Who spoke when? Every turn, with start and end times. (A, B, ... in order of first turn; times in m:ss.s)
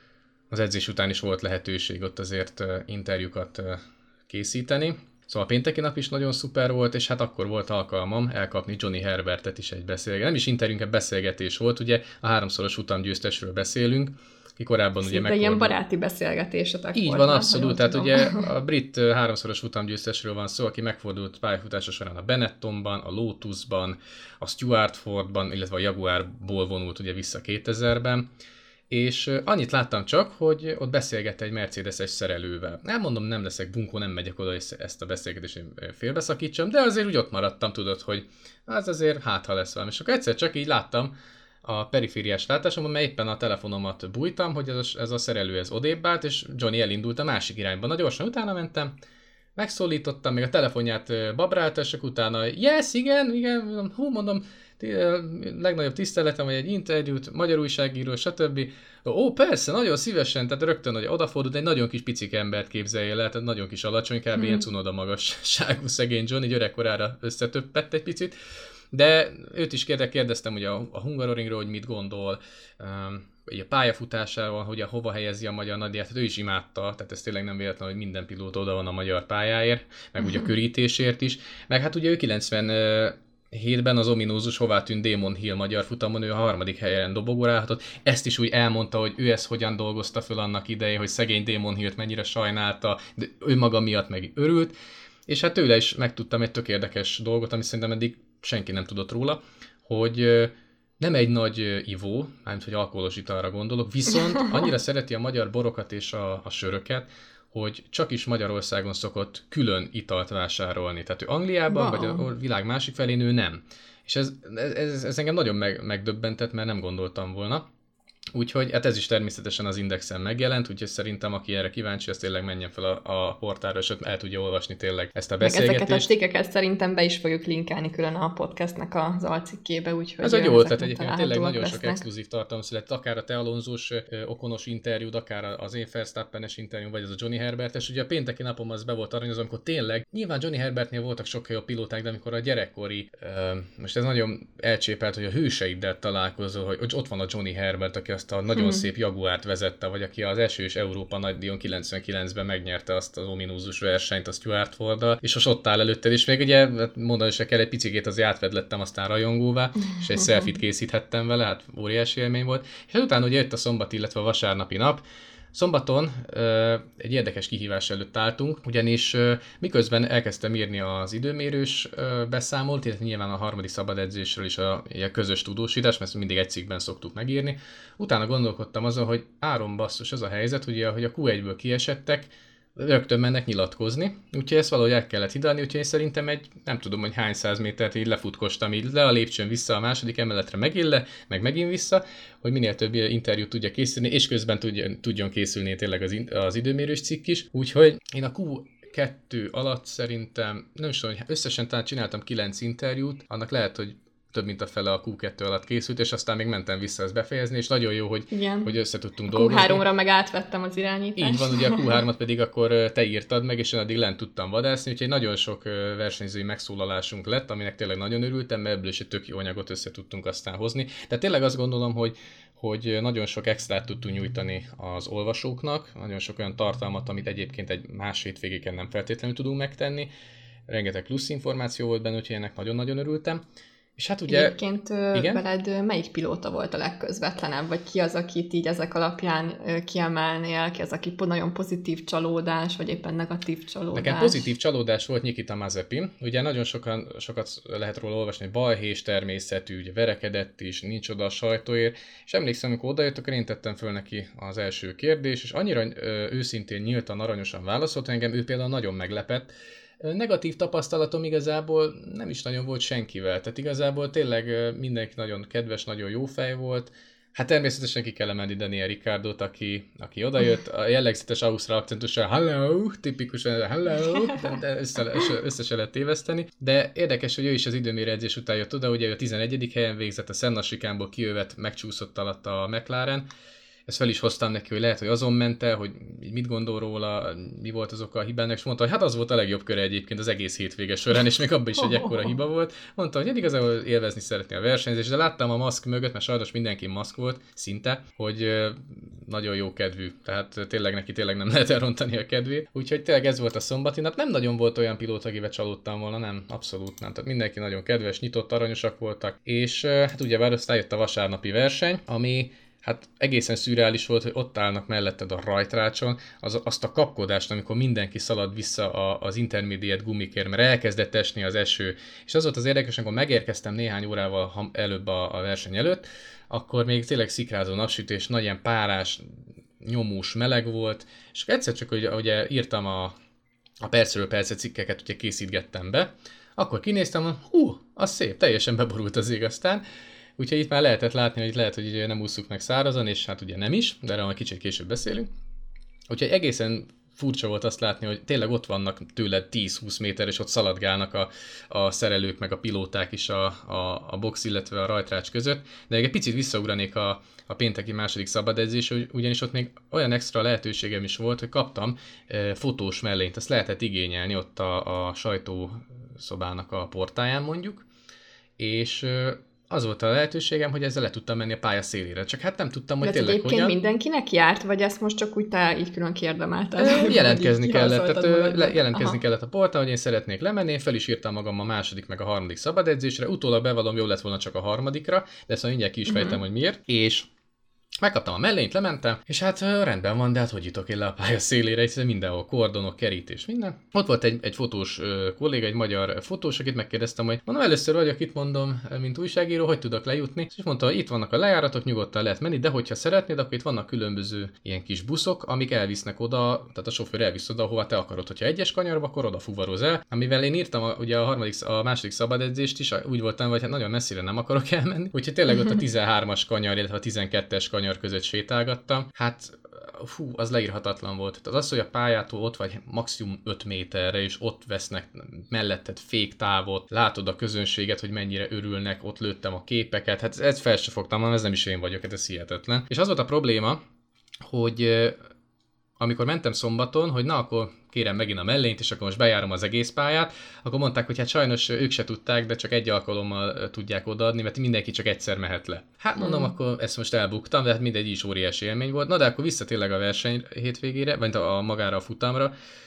0:00.5-0:15.7 A
0:15.0-0:18.5 B
0:16.9-0:28.3 A
0:28.9-0:41.1 A
0:41.6-0:48.9 A
0:49.6-1:08.3 A
1:08.9-1:34.7 A
1:35.3-1:57.6 A
1:51.7-1:52.2 B
1:58.3-2:06.1 A
2:05.4-2:12.0 B
2:10.2-2:45.0 A
2:28.6-2:28.9 B
2:45.5-3:29.8 A
3:28.3-3:28.7 B
3:29.3-3:31.9 B
3:31.2-3:50.1 A
3:50.7-3:53.4 A
3:54.0-3:54.6 A
3:54.3-4:04.5 B
3:55.1-3:55.4 A
4:03.9-4:19.5 A
4:20.0-4:43.2 A
4:43.9-5:33.1 A
5:33.8-5:39.8 A
5:40.4-5:45.3 A
5:46.1-6:07.9 A
6:08.6-6:13.8 A
6:13.0-6:19.2 B
6:16.8-6:27.3 A
6:26.1-6:26.4 B
6:28.0-7:13.8 A
7:14.4-7:15.2 A
7:16.0-7:32.5 A
7:26.2-7:26.5 B